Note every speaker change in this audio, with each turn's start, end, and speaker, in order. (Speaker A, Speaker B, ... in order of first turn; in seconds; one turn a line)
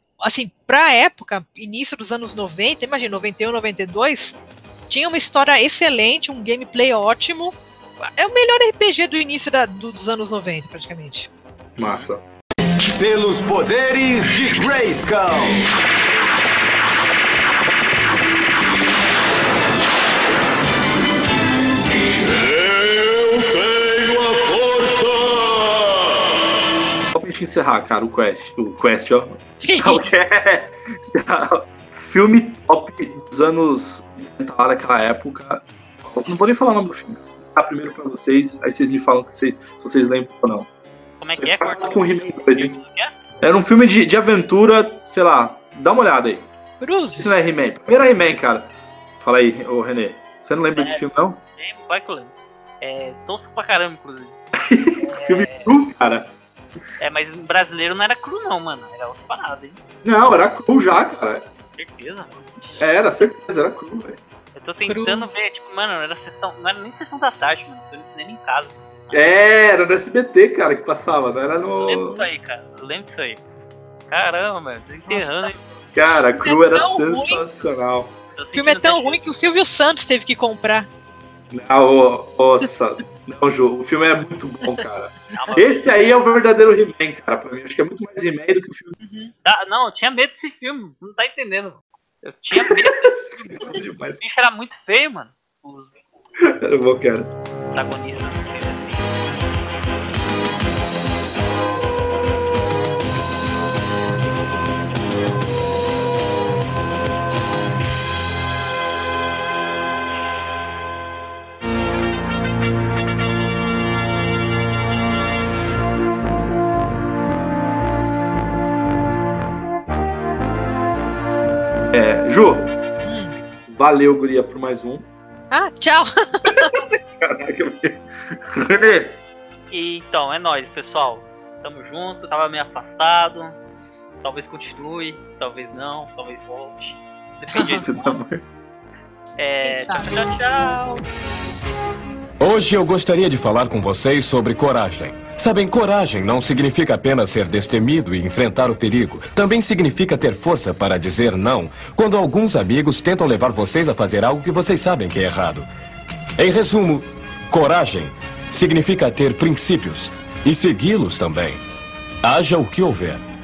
Speaker A: 0.2-4.3
Speaker A: 4.9-7.6
Speaker A: 8.2-11.3
Speaker B: 11.8-12.1
Speaker C: 11.8-12.2
Speaker D: 13.0-15.7
Speaker C: 27.1-40.7
Speaker A: 29.6-30.0
Speaker B: 41.2-43.1
Speaker C: 41.4-42.8
Speaker C: 43.4-46.5
Speaker A: 46.8-47.4
Speaker C: 47.1-51.4
Speaker B: 50.8-51.0
Speaker B: 51.6-54.4
Speaker C: 54.6-56.3
Speaker B: 55.0-55.7
Speaker B: 57.0-59.8
Speaker C: 60.0-61.4
Speaker B: 61.8-62.3
Speaker C: 62.8-64.2
Speaker B: 64.5-69.3
Speaker A: 64.8-65.3
Speaker C: 69.1-72.3
Speaker B: 71.8-73.4
Speaker B: 74.1-75.6
Speaker A: 75.1-75.5
Speaker C: 75.9-78.1
Speaker A: 76.4-77.4
Speaker B: 78.3-79.2
Speaker A: 78.5-80.9
Speaker C: 81.5-89.0
Speaker B: 85.3-86.1
Speaker A: 89.0-89.3
Speaker B: 89.4-93.1
Speaker C: 92.5-94.2
Speaker B: 94.2-96.3
Speaker C: 96.5-97.3
Speaker B: 97.7-99.1
Speaker C: 121.9-122.7
Speaker A: 123.0-123.3
Speaker C: 123.7-125.0
Speaker A: 125.5-126.8
Speaker C: 126.4-129.2
Speaker B: 129.7-133.6
Speaker B: 134.2-138.2
Speaker C: 137.7-138.4
Speaker B: 139.4-141.0
Speaker A: 139.6-140.2
Speaker E: 142.4-155.7
Speaker E: 156.4-161.6
Speaker E: 162.2-163.2